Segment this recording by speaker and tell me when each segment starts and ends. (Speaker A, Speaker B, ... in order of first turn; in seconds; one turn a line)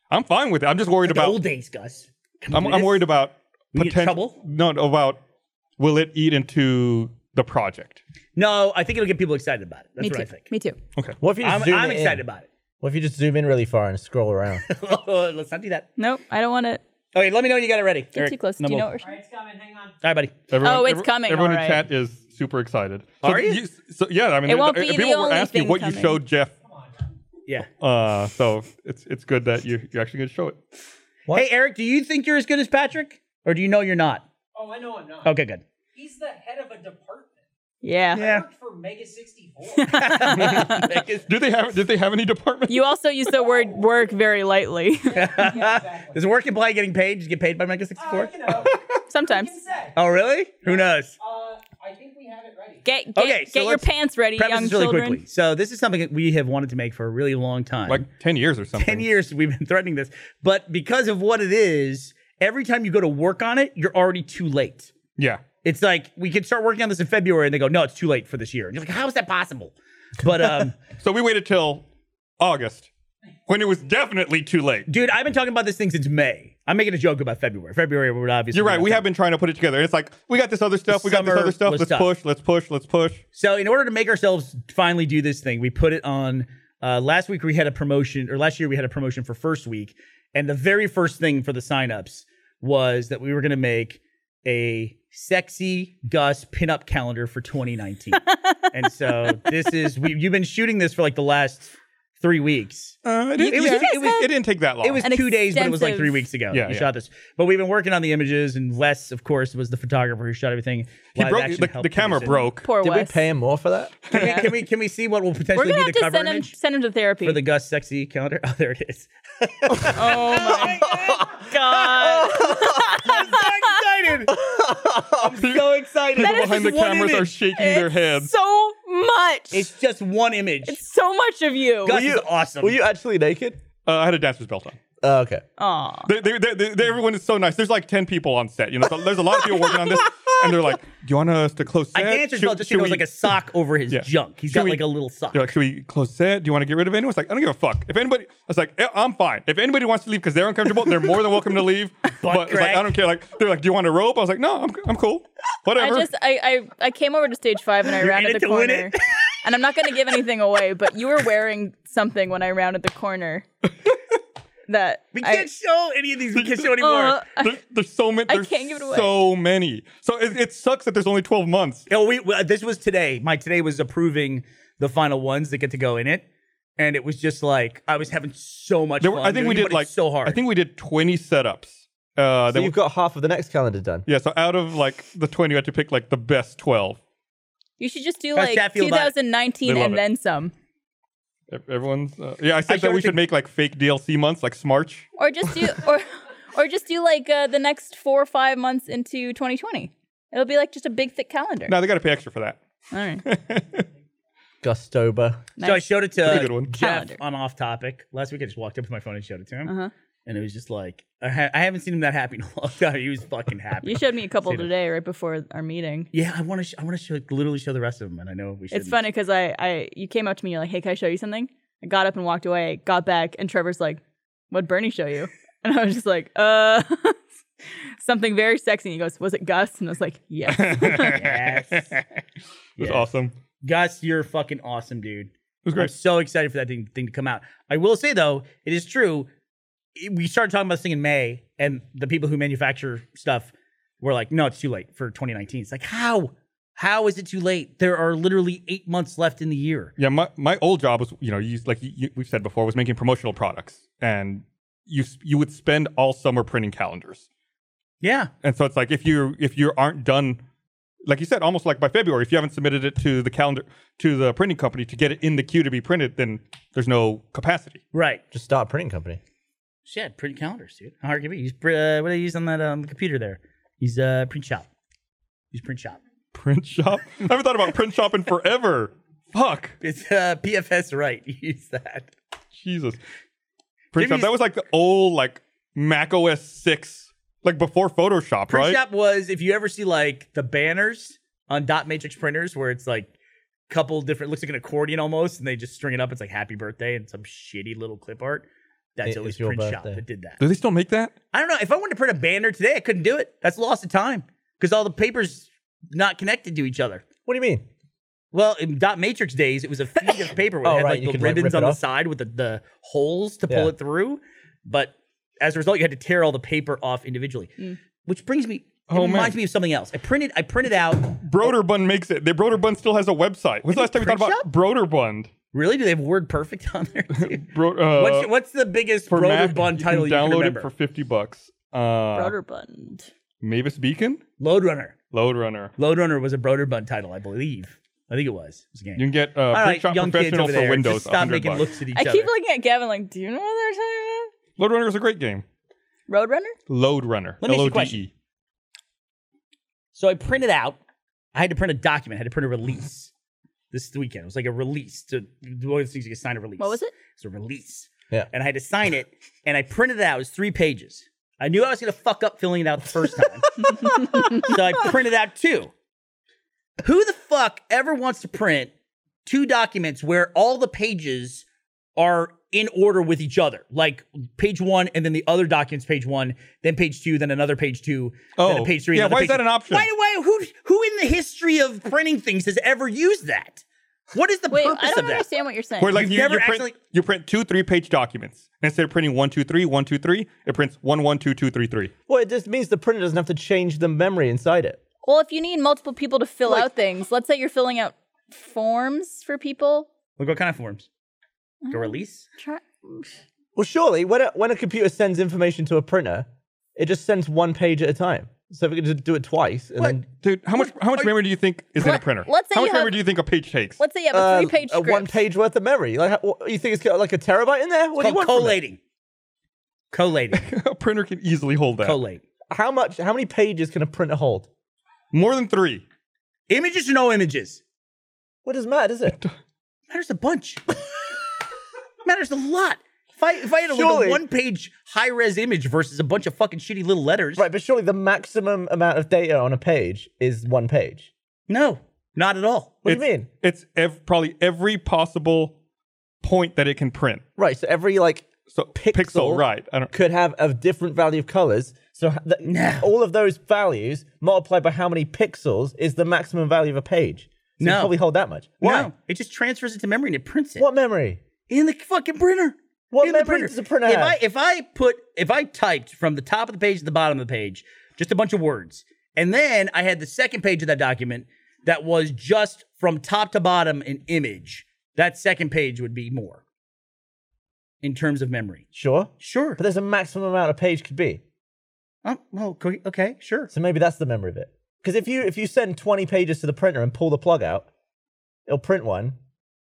Speaker A: 0.1-1.4
Speaker B: 1.1-3.1
Speaker A: 2.5-5.2
Speaker B: 3.7-4.4
Speaker A: 5.8-8.0
Speaker B: 8.3-10.5
Speaker C: 10.0-10.8
Speaker D: 11.2-12.2
Speaker B: 11.4-12.5
Speaker D: 12.8-14.7
Speaker B: 14.7-15.9
Speaker C: 16.0-16.8
Speaker B: 17.1-18.9
Speaker C: 18.1-19.1
Speaker E: 19.0-20.0
Speaker B: 20.0-20.4
Speaker A: 20.5-26.5
Speaker C: 20.6-21.8
Speaker B: 23.2-23.6
Speaker C: 24.4-26.2
Speaker A: 27.8-30.6
Speaker B: 31.3-34.2
Speaker E: 34.5-35.4
Speaker B: 35.2-35.6
Speaker E: 35.9-37.4
Speaker C: 37.8-38.2
Speaker B: 38.1-38.4
Speaker E: 38.1-39.9
Speaker C: 39.8-41.0
Speaker B: 39.9-41.3
Speaker A: 40.3-42.9
Speaker C: 42.7-45.3
Speaker B: 45.1-48.5
Speaker E: 45.3-46.2
Speaker E: 48.0-50.0
Speaker C: 49.1-49.6
Speaker B: 49.9-51.1
Speaker E: 50.6-52.9
Speaker C: 52.8-55.2
Speaker B: 53.1-58.0
Speaker A: 57.9-59.1
Speaker B: 58.8-64.9
Speaker A: 65.2-65.4
Speaker B: 65.6-70.8
Speaker A: 71.0-71.8
Speaker A: 72.4-72.9
Speaker A: 73.5-74.9
Speaker B: 74.9-79.0
Speaker A: 78.5-83.2
Speaker B: 80.9-82.1
Speaker B: 83.3-103.0
Speaker C: 98.1-98.7
Speaker A: 103.0-105.0
Speaker C: 103.4-104.3
Speaker B: 103.5-104.3
Speaker B: 104.8-112.5
Speaker C: 105.0-106.2
Speaker A: 106.5-106.9
Speaker A: 111.2-112.7
Speaker C: 112.3-113.2
Speaker D: 112.8-114.1
Speaker A: 114.1-114.5
Speaker C: 114.1-114.5
Speaker B: 114.1-116.5
Speaker C: 115.5-117.4
Speaker B: 117.2-124.3
Speaker D: 119.7-121.1
Speaker C: 119.9-123.7
Speaker D: 122.1-123.0
Speaker D: 124.3-125.5
Speaker B: 125.2-127.3
Speaker A: 125.4-128.3
Speaker C: 126.2-129.7
Speaker B: 129.5-130.8
Speaker C: 130.6-132.0
Speaker B: 131.8-132.7
Speaker D: 131.8-133.6
Speaker A: 133.8-134.8
Speaker D: 135.0-135.4
Speaker C: 135.6-136.1
Speaker A: 136.1-143.1
Speaker B: 141.9-145.5
Speaker A: 143.9-156.1
Speaker B: 152.2-152.9
Speaker C: 155.8-163.4
Speaker B: 158.0-159.1
Speaker C: 164.7-165.5
Speaker B: 165.1-167.2
Speaker A: 166.3-166.8
Speaker C: 166.8-167.6
Speaker A: 167.3-171.9
Speaker C: 168.3-169.1
Speaker B: 171.9-176.2
Speaker B: 176.8-180.4
Speaker A: 179.0-182.7
Speaker D: 182.5-184.1
Speaker A: 184.1-187.0
Speaker C: 187.8-190.5
Speaker B: 188.3-189.1
Speaker A: 189.6-190.0
Speaker A: 191.5-195.1
Speaker B: 192.7-193.2
Speaker C: 195.2-201.8
Speaker A: 201.7-202.6
Speaker C: 202.9-203.2
Speaker A: 203.2-203.9
Speaker D: 204.6-205.5
Speaker C: 205.6-207.2
Speaker B: 205.6-209.7
Speaker A: 206.2-206.7
Speaker C: 209.6-209.9
Speaker B: 210.2-214.7
Speaker C: 213.8-216.1
Speaker B: 216.1-219.0
Speaker C: 218.7-227.2
Speaker C: 228.0-231.3
Speaker A: 230.4-232.1
Speaker B: 231.0-232.0
Speaker A: 232.8-233.3
Speaker B: 232.8-233.1
Speaker B: 233.6-239.3
Speaker A: 235.6-235.9
Speaker B: 239.9-249.9
Speaker A: 250.0-257.3
Speaker B: 258.0-258.3
Speaker A: 258.4-260.4
Speaker A: 261.1-267.8
Speaker B: 267.9-268.2
Speaker D: 268.3-269.2
Speaker B: 269.9-274.7
Speaker B: 275.5-276.0
Speaker A: 276.3-279.8
Speaker B: 279.8-282.1
Speaker A: 282.5-283.0
Speaker A: 283.9-288.8
Speaker B: 283.9-284.3
Speaker B: 288.5-293.1
Speaker B: 293.7-300.4
Speaker D: 299.0-300.0
Speaker A: 300.4-301.1
Speaker B: 301.3-307.0
Speaker D: 307.2-307.6
Speaker B: 308.3-321.6
Speaker D: 310.6-311.8
Speaker A: 318.9-319.4
Speaker A: 321.0-325.3
Speaker B: 323.7-324.4
Speaker B: 325.5-330.7
Speaker A: 327.1-328.3
Speaker A: 329.1-332.3
Speaker C: 332.1-333.1
Speaker A: 333.4-334.2
Speaker B: 334.4-335.0
Speaker A: 335.1-335.7
Speaker B: 335.8-342.3
Speaker A: 338.9-341.7
Speaker C: 341.9-344.3
Speaker A: 344.6-345.4
Speaker C: 346.1-346.6
Speaker A: 346.7-348.1
Speaker B: 347.4-348.0
Speaker B: 349.9-350.8
Speaker B: 351.3-353.1
Speaker B: 353.7-365.7
Speaker C: 356.6-356.9
Speaker B: 366.8-368.7
Speaker B: 369.2-371.4
Speaker B: 371.9-385.2
Speaker A: 378.4-379.9
Speaker C: 384.5-386.0
Speaker A: 385.8-391.9
Speaker B: 385.9-386.7
Speaker D: 392.1-394.8
Speaker C: 395.0-399.9
Speaker B: 400.2-400.9
Speaker C: 401.6-403.1
Speaker B: 401.7-402.2
Speaker D: 403.6-410.0
Speaker B: 409.8-411.1
Speaker A: 410.2-413.8
Speaker C: 411.8-413.0
Speaker C: 413.8-415.2
Speaker D: 414.1-418.6
Speaker B: 418.0-418.8
Speaker B: 419.9-420.5
Speaker A: 420.3-422.0
Speaker B: 421.8-422.2
Speaker D: 422.5-424.5
Speaker A: 425.1-425.8
Speaker B: 426.5-427.6
Speaker D: 428.4-429.2
Speaker B: 429.9-430.8
Speaker B: 432.0-437.4
Speaker D: 433.6-434.2
Speaker D: 437.4-441.1
Speaker B: 441.5-442.8
Speaker D: 442.8-443.3
Speaker A: 442.9-445.5
Speaker A: 446.2-447.2
Speaker D: 447.4-458.9
Speaker A: 448.5-449.9
Speaker B: 452.4-452.9
Speaker B: 457.6-457.9
Speaker B: 458.6-460.6
Speaker D: 460.6-461.2
Speaker B: 461.5-476.4
Speaker D: 462.9-464.2
Speaker B: 477.8-478.6
Speaker D: 478.7-481.2
Speaker B: 479.2-479.6
Speaker B: 482.0-483.5
Speaker D: 483.5-487.7
Speaker D: 488.5-489.2